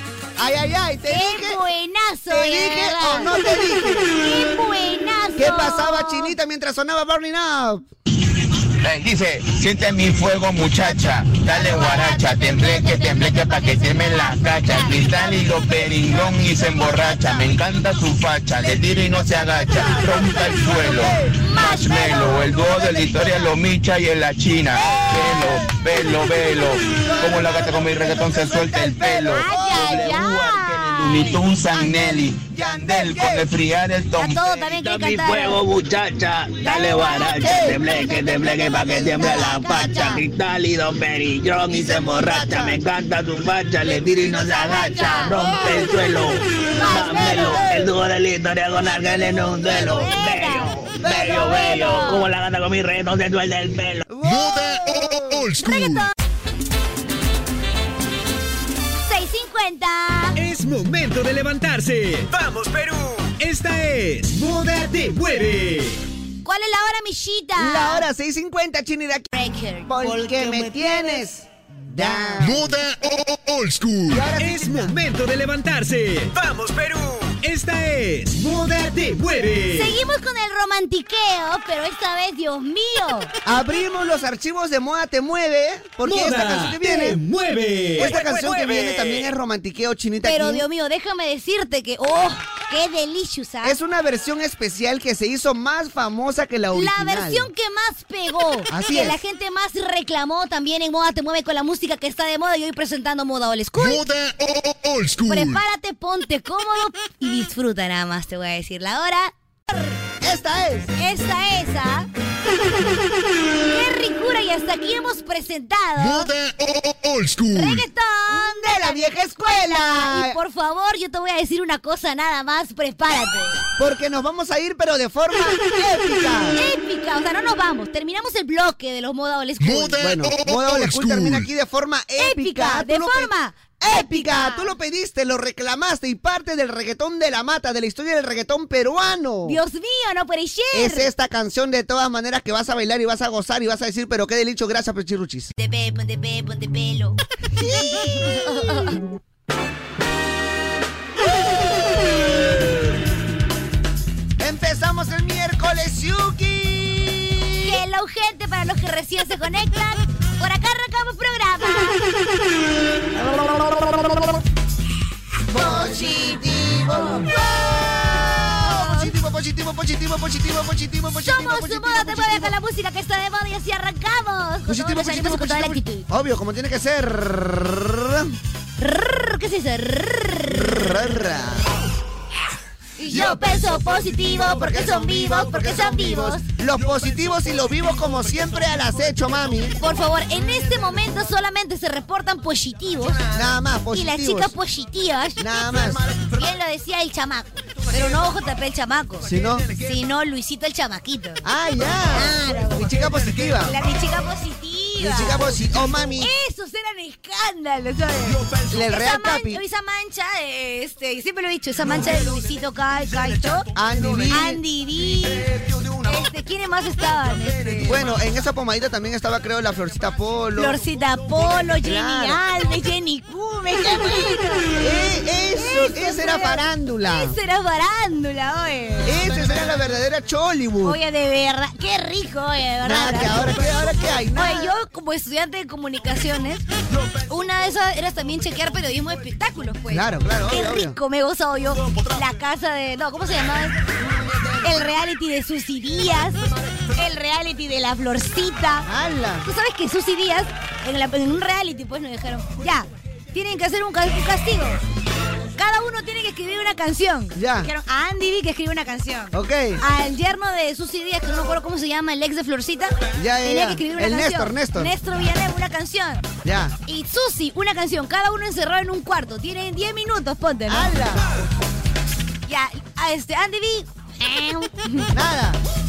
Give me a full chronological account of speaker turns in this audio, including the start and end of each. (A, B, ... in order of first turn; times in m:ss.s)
0:00.4-0:01.6 A
0:01.1-0:03.3 B
0:02.3-0:04.1 A
0:04.1-0:06.3 B
0:05.4-0:07.8 A
0:08.8-0:34.4 C
0:10.8-0:12.8 A
0:11.6-0:16.4 B
0:15.4-0:17.6 A
0:18.6-0:21.4 A
0:21.3-0:23.5 B
0:22.6-0:23.1 A
0:24.7-0:25.5 B
0:24.8-0:25.5 A
0:27.0-0:30.1 A
0:29.2-0:31.5 B
0:31.8-0:33.5 A
0:34.2-0:35.6 B
0:34.5-0:54.0 D
0:36.6-0:40.2 B
0:37.4-0:37.8 A
0:38.7-0:40.1 A
0:41.7-0:42.8 A
0:43.9-0:45.9 A
0:44.3-0:45.9 B
0:46.7-0:47.7 B
0:46.8-0:47.9 A
0:49.6-0:50.7 B
0:51.0-0:52.2 A
0:51.3-0:52.2 B
0:54.1-0:55.4 A
0:54.2-0:56.1 E
0:55.6-0:56.1 B
0:59.0-1:00.4 B
1:00.4-1:06.0 F
1:06.4-1:08.0 B
1:07.6-1:09.3 A
1:09.3-1:11.2 B
1:09.8-1:12.8 A
1:11.9-1:12.4 B
1:12.4-1:14.3 E
1:14.1-1:14.9 A
1:14.4-1:19.9 F
1:19.7-1:23.3 B
1:23.4-1:27.2 A
1:26.0-1:29.2 F
1:28.0-1:30.6 A
1:30.2-1:33.8 B
1:33.6-1:37.5 A
1:36.7-1:44.0 B
1:38.7-1:39.2 A
1:43.8-1:45.6 E
1:45.3-1:49.3 B
1:50.2-1:50.9 A
1:51.0-1:52.1 B
1:53.6-1:56.3 B
1:56.0-1:57.8 E
1:57.5-2:03.6 B
1:58.3-2:00.4 A
2:03.8-2:06.6 A
2:06.5-2:10.1 B
2:09.6-2:11.5 E
2:10.0-2:19.6 A
2:12.2-2:14.7 B
2:19.4-2:21.1 B
2:20.7-2:25.5 A
2:25.6-2:29.0 B
2:27.6-2:28.4 A
2:34.4-2:37.8 A
2:37.6-2:42.0 B
2:45.5-2:52.5 A
2:45.5-2:47.3 B
2:48.1-2:49.1 B
2:51.2-2:56.0 B
2:54.6-2:58.4 A
2:58.8-3:00.7 B
3:00.5-3:01.7 A
3:03.0-3:06.5 B
3:03.1-3:09.8 A
3:09.8-3:13.3 B
3:13.3-3:14.5 A
3:13.9-3:21.4 B
3:15.4-3:16.0 A
3:19.2-3:19.7 A
3:21.4-3:23.7 A
3:22.1-3:22.9 B
3:23.6-3:25.5 B
3:25.0-3:26.3 A
3:26.2-3:33.7 B
3:28.7-3:29.6 A
3:33.7-3:34.6 A
3:34.3-3:35.5 B
3:36.0-3:38.1 B
3:37.8-3:40.8 A
3:40.6-3:44.8 B
3:41.8-3:42.4 A
3:44.8-3:47.3 A
3:45.6-3:49.3 B
3:49.0-3:51.0 A
3:50.8-3:56.6 B
3:52.8-3:54.7 A
3:57.2-4:03.9 B
3:59.9-4:01.0 A
4:04.6-4:06.4 B
4:06.9-4:08.9 B
4:08.8-4:09.4 A
4:09.4-4:14.8 B
4:15.6-4:26.2 B
4:17.4-4:17.7 A
4:19.3-4:19.8 A
4:23.2-4:24.9 A
4:26.4-4:26.8 A
4:26.8-4:30.9 B
4:30.7-4:31.3 A
4:32.5-4:35.1 B
4:35.1-4:35.6 A